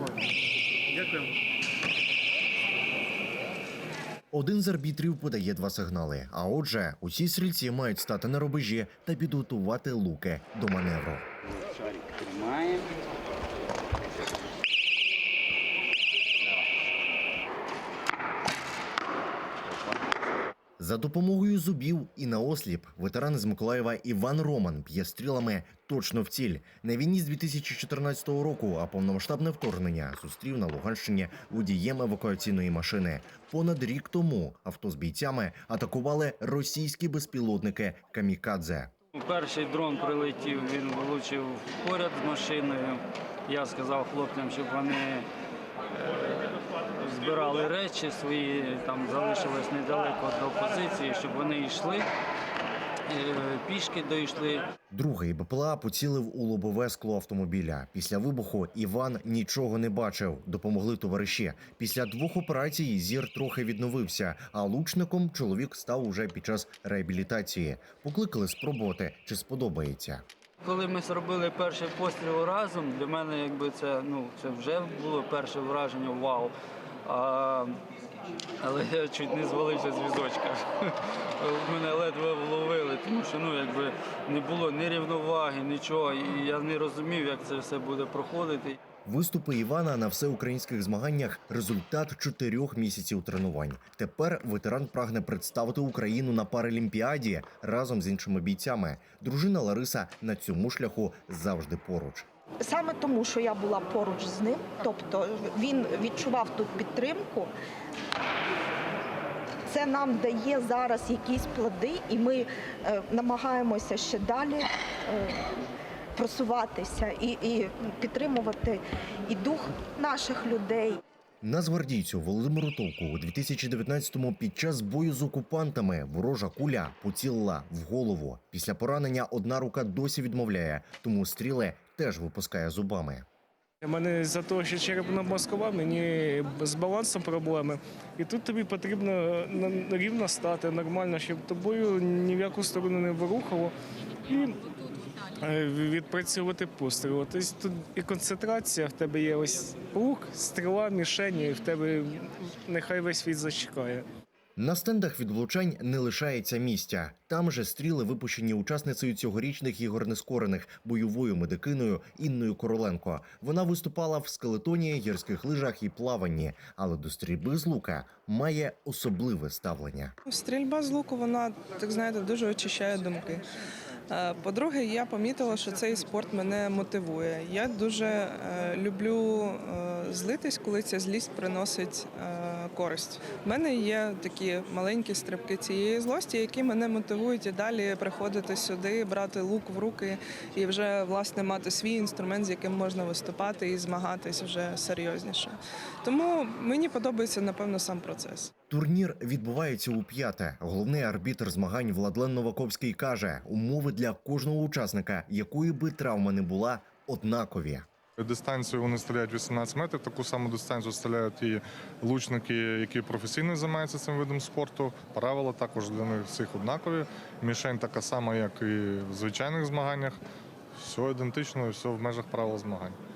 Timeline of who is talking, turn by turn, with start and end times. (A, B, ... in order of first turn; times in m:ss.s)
0:04.3-0:11.2 A
0:11.6-0:12.9 B
0:20.8-0:38.9 A
0:39.1-0:45.3 B
0:46.0-0:52.1 B
0:53.1-0:54.7 B
0:54.9-1:10.2 A
1:10.6-1:16.5 B
1:17.0-1:17.8 B
1:18.6-1:28.8 B
1:29.0-1:42.2 A
1:42.6-1:47.5 C
1:49.7-1:55.4 C
1:56.1-2:01.0 C
2:01.4-2:13.2 A
2:13.8-2:23.7 D
2:24.2-2:24.5 D
2:25.4-2:34.0 D
2:34.6-2:50.1 A
2:50.2-2:53.4 E
2:54.1-3:18.5 E
3:18.7-3:27.8 A
3:28.2-3:40.2 F
3:40.8-3:43.0 F